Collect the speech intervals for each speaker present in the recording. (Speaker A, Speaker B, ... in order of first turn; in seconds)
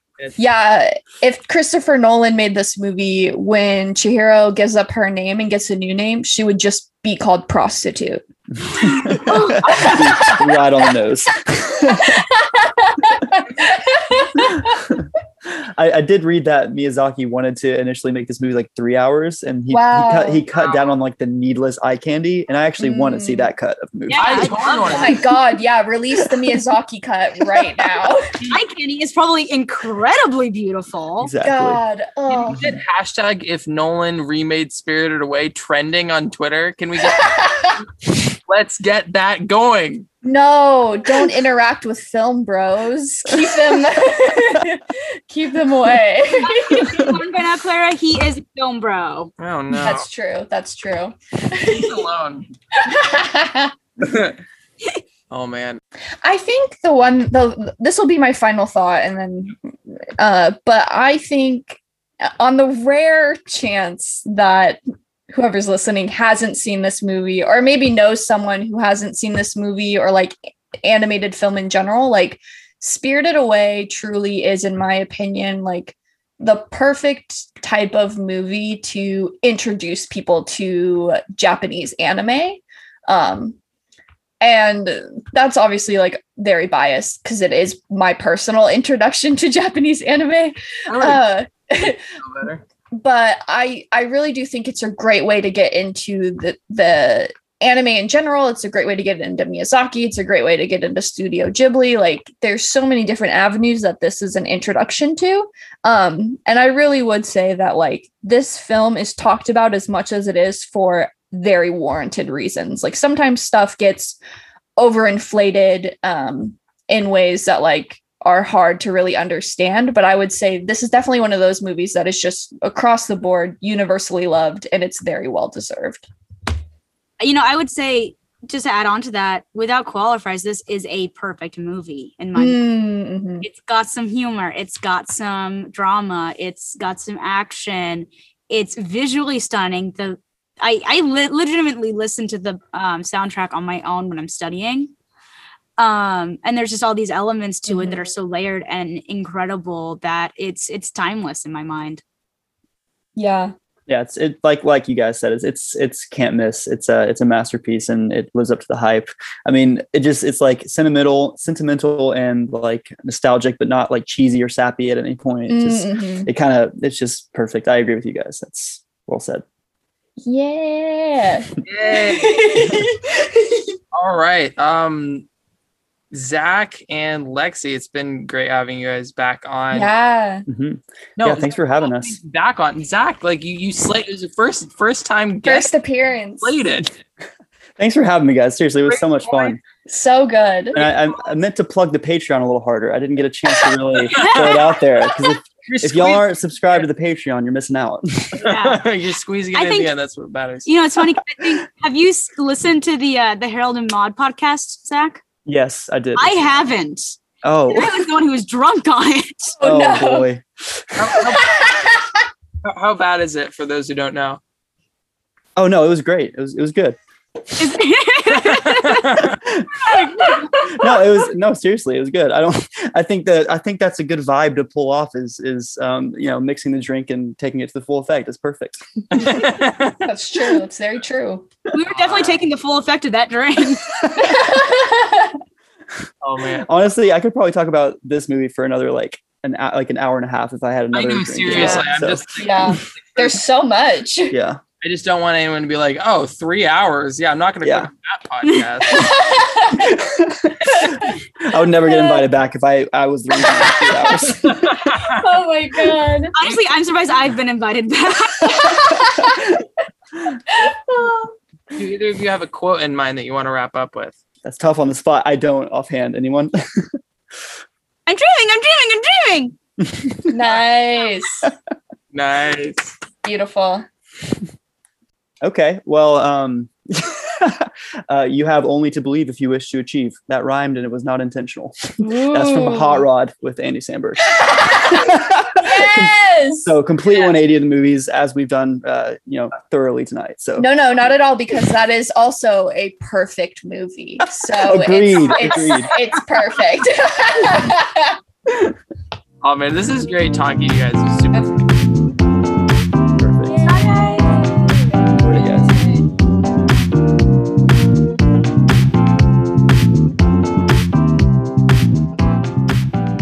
Speaker A: 0.4-8.2, 8.8-9.1, 9.8-10.9, 11.9-15.0, 19.7-20.4, 22.8-23.5, 24.9-28.3, 31.4-32.7, 37.0-37.8, 40.2-47.2, 49.8-52.1, 52.7-53.7, 56.2-59.6, 60.2-83.6, 84.4-92.0, 92.9-114.2, 114.8-126.1, 132.3-133.5, 147.7-148.0, 153.2-153.5, 165.5-166.3, 170.3-173.7, 179.7-180.4, 185.4-186.6, 189.9-190.9, 209.6-210.3, 211.3-212.2, 219.9-221.0, 230.0-231.5, 234.2-235.4, 242.4-244.3, 248.9-250.0, 250.7-251.2, 251.8-252.3, 253.4-256.3, 258.5-259.5, 260.5-261.3, 270.3-271.5, 273.2-273.9, 282.0-283.1, 284.3-286.7, 290.6-298.2
Speaker B: 8.6-12.3, 14.4-25.0, 31.2-31.8, 153.9-169.4, 180.5-182.2, 187.8-189.6, 190.7-198.4, 205.5-206.5, 207.4-208.1, 209.6-211.4, 215.6-217.0, 219.2-229.5, 236.7-242.8, 244.3-244.6, 247.6-247.9, 249.7-254.8, 259.0-259.6, 264.4-267.0, 269.9-270.2, 275.4-290.7, 294.6-295.9, 298.5-298.8, 303.1-303.7, 305.2-305.8
Speaker C: 8.9-10.4, 24.1-25.1, 28.5-31.3, 46.4-49.3, 127.2-132.6, 133.4-144.9, 145.8-152.0, 194.1-194.5, 198.4-198.8, 199.5-199.9, 200.7-205.2, 206.2-207.2, 207.7-209.6, 217.6-219.1, 231.7-233.8, 241.5-241.9, 256.3-258.7, 268.1-269.6, 303.6-306.0
Speaker D: 20.5-20.9, 24.2-25.2, 32.3-40.1, 49.4-50.1, 51.6-52.5, 54.0-54.4, 55.3-55.8, 90.9-91.2, 92.2-92.6, 171.7-172.5, 173.9-175.2, 176.1-179.9, 181.2-185.7, 186.4-186.9, 188.9-189.5, 194.2-194.7, 195.7-196.8, 198.4-200.7, 211.0-211.8, 212.6-214.4, 218.4-219.4, 229.1-230.1, 231.9-232.4, 236.2-236.7, 240.9-243.3, 244.8-249.2, 254.4-255.2, 261.8-264.2, 272.1-272.9, 299.4-301.7